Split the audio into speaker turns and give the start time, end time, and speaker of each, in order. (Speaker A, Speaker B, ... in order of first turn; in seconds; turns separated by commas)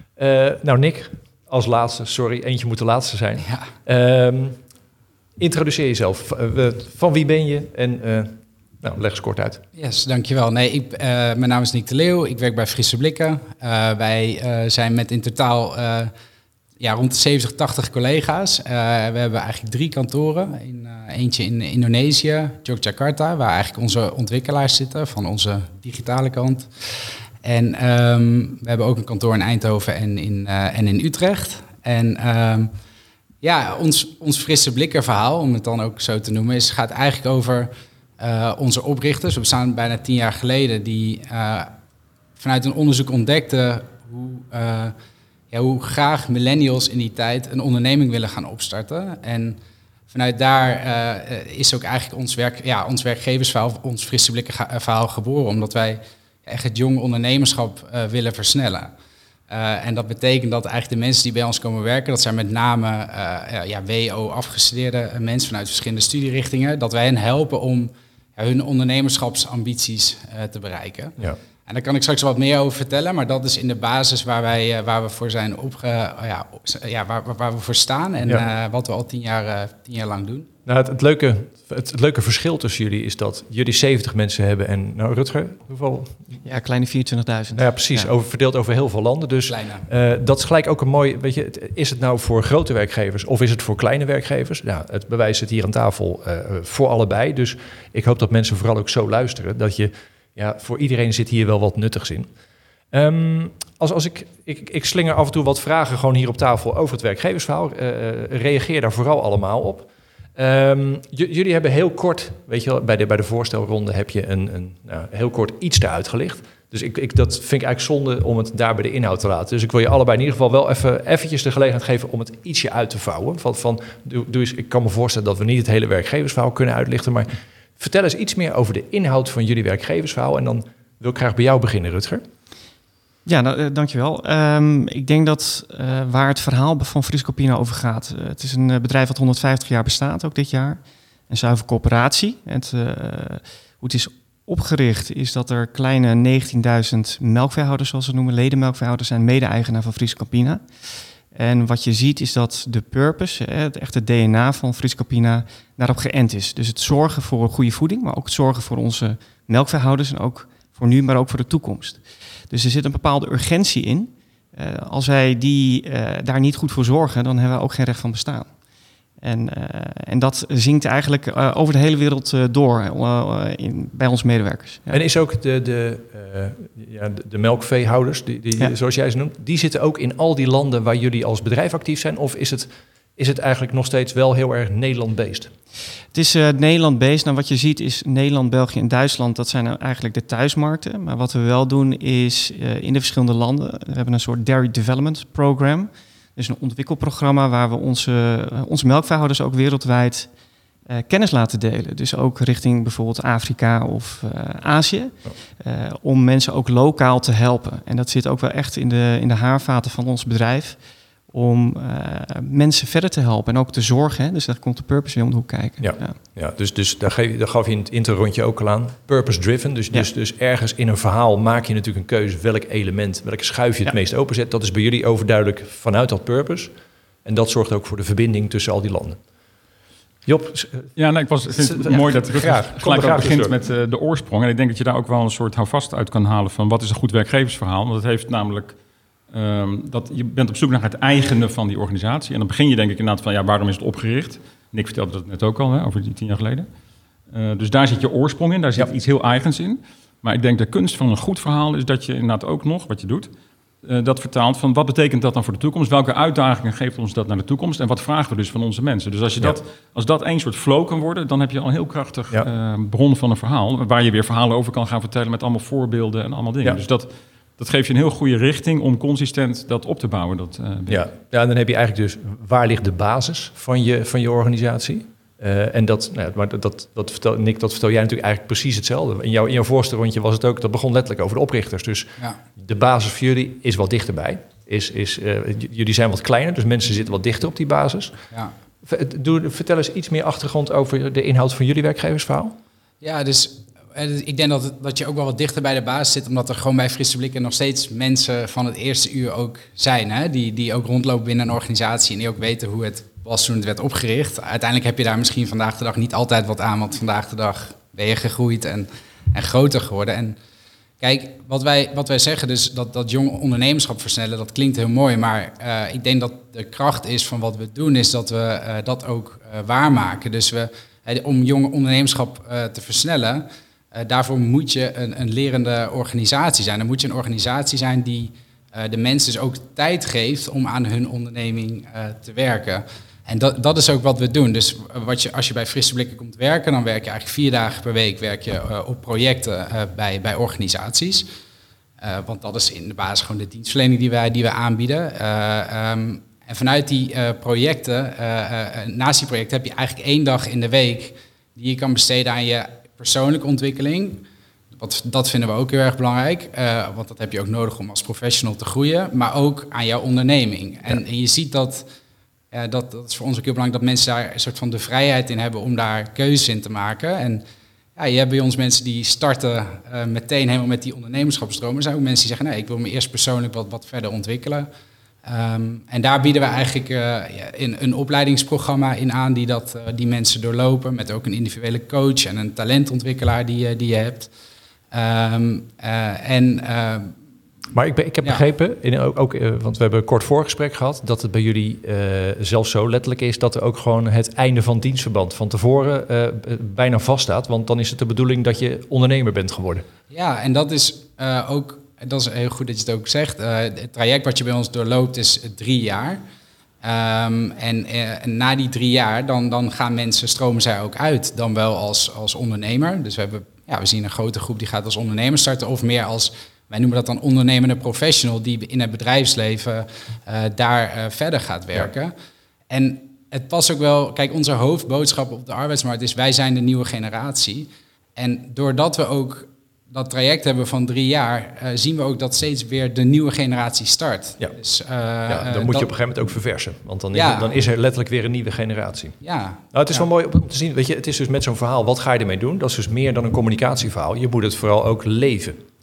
Speaker A: 0.2-4.6, Speaker A: 5.4-9.6, Speaker B: 9.7-16.1, Speaker B: 16.8-26.7, Speaker B: 27.4-32.7, Speaker B: 33.4-41.7, Speaker B: 42.4-44.9, Speaker B: 45.5-58.9, Speaker B: 59.5-80.5, Speaker A: 80.7-86.2, Speaker C: 86.4-88.1, Speaker A: 87.5-102.3, Speaker B: 89.5-89.8, Speaker A: 102.9-132.2, Speaker C: 133.2-150.6, Speaker C: 151.3-168.5, Speaker C: 169.2-175.0, Speaker A: 174.9-185.5, Speaker C: 186.1-200.3, Speaker C: 200.9-210.8, Speaker C: 211.3-216.2, Speaker A: 215.8-226.7, Speaker A: 227.2-229.2, Speaker A: 230.2-230.9, Speaker D: 230.9-238.8, Speaker A: 231.6-233.6, Speaker D: 239.3-246.7, Speaker D: 247.3-253.3, Speaker D: 253.8-271.1, Speaker A: 270.9-288.1, Speaker A: 288.8-292.6, Speaker B: 293.0-310.4, Speaker B: 311.0-341.3, Speaker B: 342.0-361.8, Speaker B: 362.5-367.4, Speaker B: 367.9-374.7, Speaker B: 375.2-384.3, Speaker B: 384.9-387.1, Speaker A: 387.7-399.8, Speaker B: 400.1-406.2, Speaker B: 406.8-422.1, Speaker B: 422.7-435.9, Speaker A: 435.3-439.2, Speaker B: 437.1-437.5, Speaker B: 439.2-440.1, Speaker A: 439.7-445.6